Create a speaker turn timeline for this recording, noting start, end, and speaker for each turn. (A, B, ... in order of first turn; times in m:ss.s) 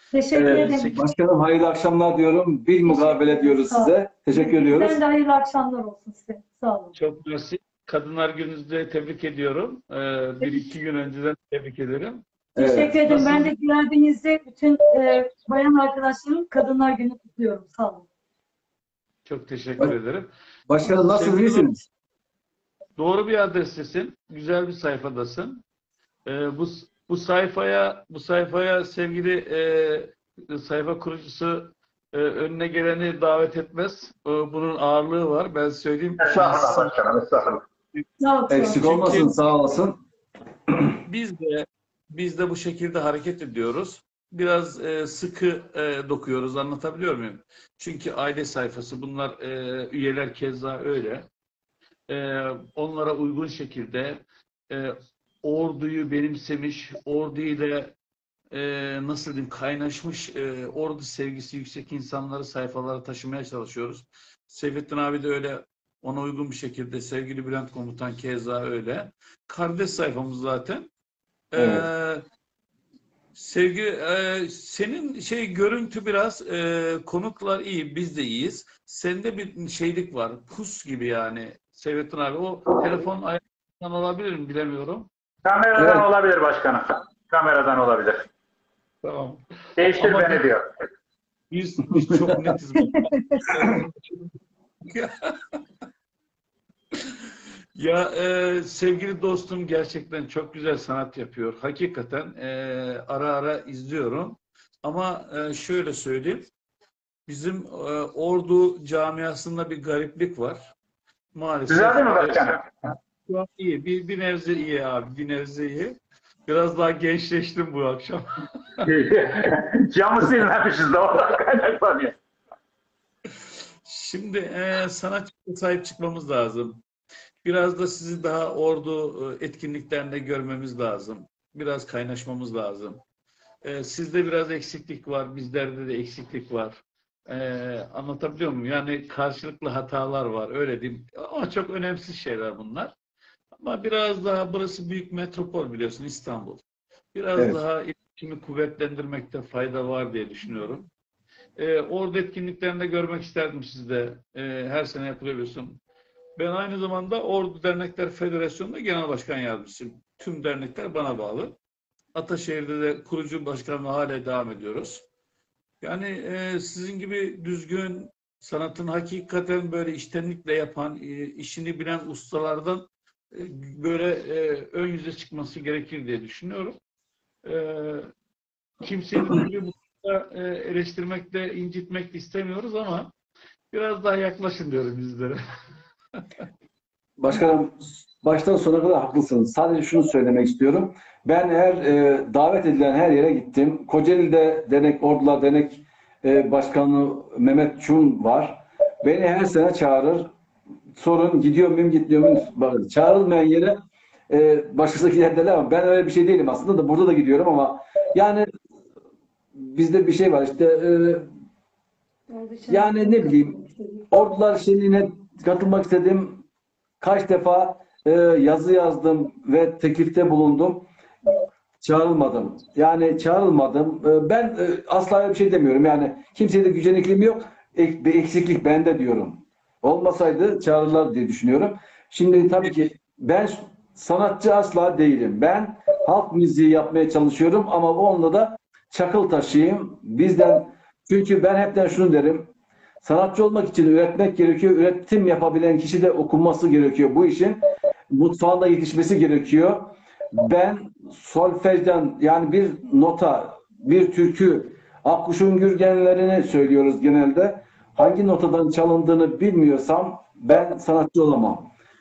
0:00.1-0:01.0 A
0:00.3-0:01.0 B
0:00.3-0:05.0 C
0:02.8-0:06.9 A
0:06.9-0:12.2 B
0:12.6-0:13.0 C
0:12.6-0:18.0 A
0:13.0-0:13.5 B
0:19.2-0:20.3 B
0:20.7-0:21.8 C
0:20.8-0:21.7 B
0:23.0-0:25.6 B
0:26.2-0:36.9 B
0:36.2-0:37.6 D
0:38.2-0:39.2 A
0:38.5-0:40.0 C
0:38.8-0:39.3 B
0:41.1-0:51.2 B
0:52.1-0:57.9 B
0:58.5-1:10.9 B
1:11.5-1:12.2 B
1:11.6-1:11.8 C
1:13.3-1:25.1 B
1:25.4-1:28.2 D
1:25.8-1:26.0 C
1:29.0-1:30.4 B
1:29.8-1:30.7 D
1:31.5-1:34.3 B
1:34.9-1:35.6 B
1:37.8-1:46.5 B
1:47.3-1:50.7 B
1:51.3-1:52.5 B
1:51.7-1:52.6 D
1:53.3-1:58.2 B
1:58.8-2:02.1 D
2:03.8-2:06.8 B
2:07.4-2:13.0 B
2:13.6-2:22.9 B
2:23.5-2:30.9 B
2:31.6-2:35.8 B
2:36.4-2:41.5 B
2:42.1-2:45.0 B
2:45.8-2:56.8 B
2:57.4-2:58.1 B
2:58.8-3:03.1 B
3:03.7-3:05.4 B
3:07.2-3:20.3 C
3:21.0-3:23.8 C
3:24.3-3:28.5 C
3:29.5-3:31.3 C
3:32.3-3:34.2 A
3:32.7-3:33.6 C
3:34.1-3:36.4 C
3:37.0-3:40.9 C
3:41.8-4:02.5 C
4:03.0-4:21.7 C